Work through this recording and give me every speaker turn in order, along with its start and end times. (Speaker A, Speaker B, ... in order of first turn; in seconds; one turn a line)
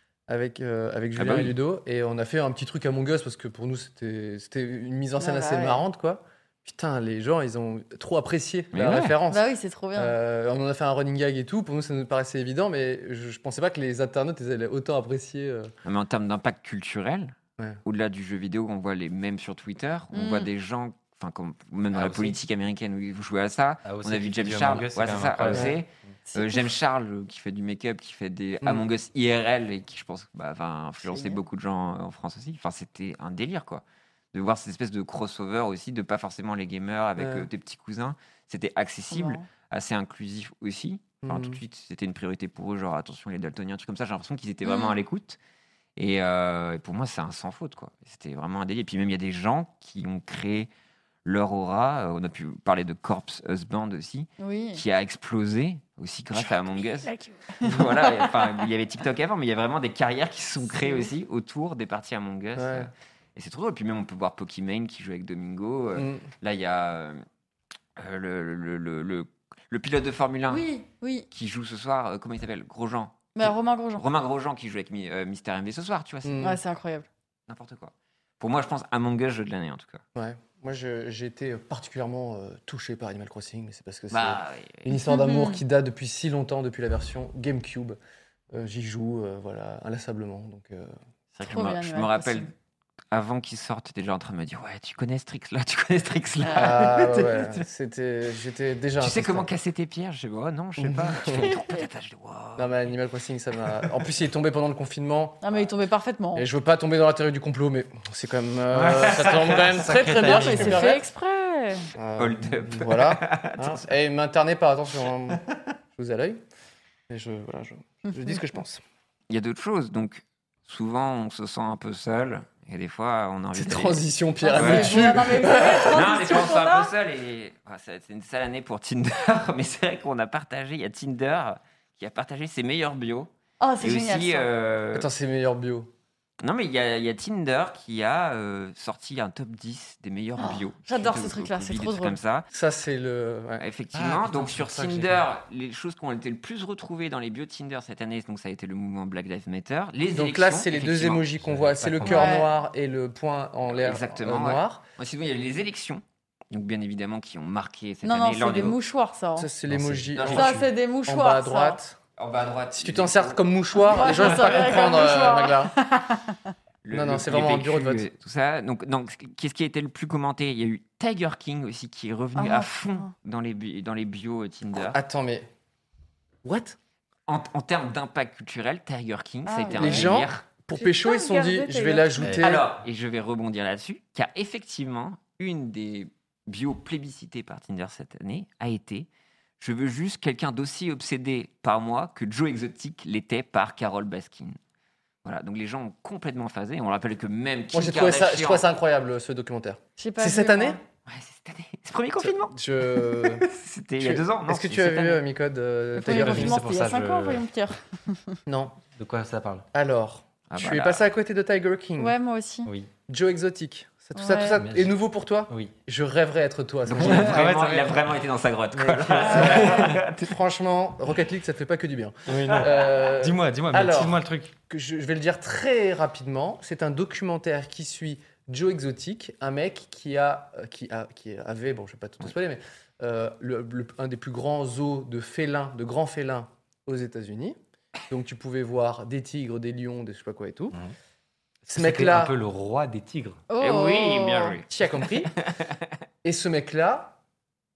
Speaker A: 0.3-15.7
Speaker B: 1.1-1.5
Speaker C: 5.2-5.8
Speaker B: 8.7-9.1
Speaker C: 9.3-10.2
Speaker B: 15.8-45.4
Speaker C: 20.1-20.5
Speaker D: 21.9-22.4
Speaker D: 23.8-26.1
Speaker A: 25.5-25.8
Speaker C: 26.3-26.7
Speaker C: 31.0-31.4
Speaker A: 37.2-37.5
Speaker C: 39.1-39.4
Speaker A: 41.2-41.6
Speaker C: 44.6-45.0
Speaker B: 46.0-50.7
Speaker B: 51.2-67.2
Speaker C: 54.4-54.8
Speaker C: 57.0-58.3
Speaker C: 60.7-61.1
Speaker A: 62.5-62.9
Speaker A: 65.9-66.3
Speaker B: 68.0-70.7
Speaker C: 70.5-71.3
Speaker B: 71.3-76.5
Speaker C: 73.3-74.0
Speaker A: 76.2-76.6
Speaker C: 76.4-77.1
Speaker B: 77.5-80.0
Speaker A: 80.1-88.0
Speaker B: 84.1-85.0
Speaker C: 85.1-85.6
Speaker A: 88.5-90.9
Speaker B: 91.3-92.5
Speaker C: 91.4-92.5
Speaker B: 93.1-97.6
Speaker C: 96.4-96.8
Speaker A: 96.5-99.5
Speaker B: 99.0-102.9
Speaker A: 100.8-101.5
Speaker C: 101.4-101.8
Speaker A: 102.6-105.7
Speaker C: 105.4-106.5
Speaker A: 106.3-111.0
Speaker D: 108.7-110.9
Speaker C: 110.2-111.9
Speaker A: 112.0-115.4
Speaker B: 112.2-113.8
Speaker A: 115.9-116.4
Speaker A: 117.1-118.8
Speaker B: 119.3-124.0
Speaker A: 123.5-126.2
Speaker C: 124.4-126.9
Speaker B: 124.5-135.1
Speaker C: 133.6-134.5
Speaker A: 134.9-135.9
Speaker B: 136.4-142.4
Speaker C: 140.4-142.2
Speaker A: 142.5-143.6
Speaker B: 143.6-151.3
Speaker D: 143.9-145.2
Speaker A: 150.1-154.8
Speaker D: 151.4-152.4
Speaker C: 152.1-152.5
Speaker B: 153.7-158.8
Speaker C: 158.0-159.5
Speaker A: 159.3-160.5
Speaker D: 159.7-160.7
Speaker B: 160.2-160.5
Speaker C: 160.3-161.8
Speaker A: 161.1-162.0
Speaker B: 162.2-165.1
Speaker A: 162.7-165.7
Speaker C: 163.8-166.4
Speaker B: 166.8-175.0
Speaker A: 166.9-168.0
Speaker C: 172.3-173.1
Speaker A: 174.8-175.5
Speaker A: 176.4-176.8
Speaker B: 177.3-180.4
Speaker C: 179.4-180.1
Speaker A: 179.8-182.6
Speaker C: 180.7-182.4
Speaker D: 182.2-182.5
Speaker B: 182.4-189.1
Speaker B: 189.6-194.6
Speaker B: 195.2-198.6
Speaker A: 197.7-200.8
Speaker C: 200.0-200.8
Speaker B: 201.1-205.2
Speaker A: 202.2-203.4
Speaker A: 204.0-206.6
Speaker C: 206.0-208.4
Speaker D: 206.0-207.4
Speaker A: 208.5-208.7
Speaker D: 208.9-209.7
Speaker A: 209.7-212.1
Speaker B: 210.5-211.0
Speaker C: 212.0-212.7
Speaker D: 212.6-212.9
Speaker A: 213.1-217.8
Speaker C: 214.2-214.6
Speaker D: 214.5-214.9
Speaker D: 215.5-215.7
Speaker D: 216.9-218.1
Speaker B: 216.9-220.3
Speaker A: 218.8-237.6
Speaker C: 219.3-219.9
Speaker D: 222.2-224.5
Speaker A: 238.1-240.8
Speaker D: 241.6-243.4
Speaker A: 241.7-242.3
Speaker C: 243.5-244.6
Speaker B: 243.6-245.8
Speaker A: 244.7-245.3
Speaker A: 246.2-247.2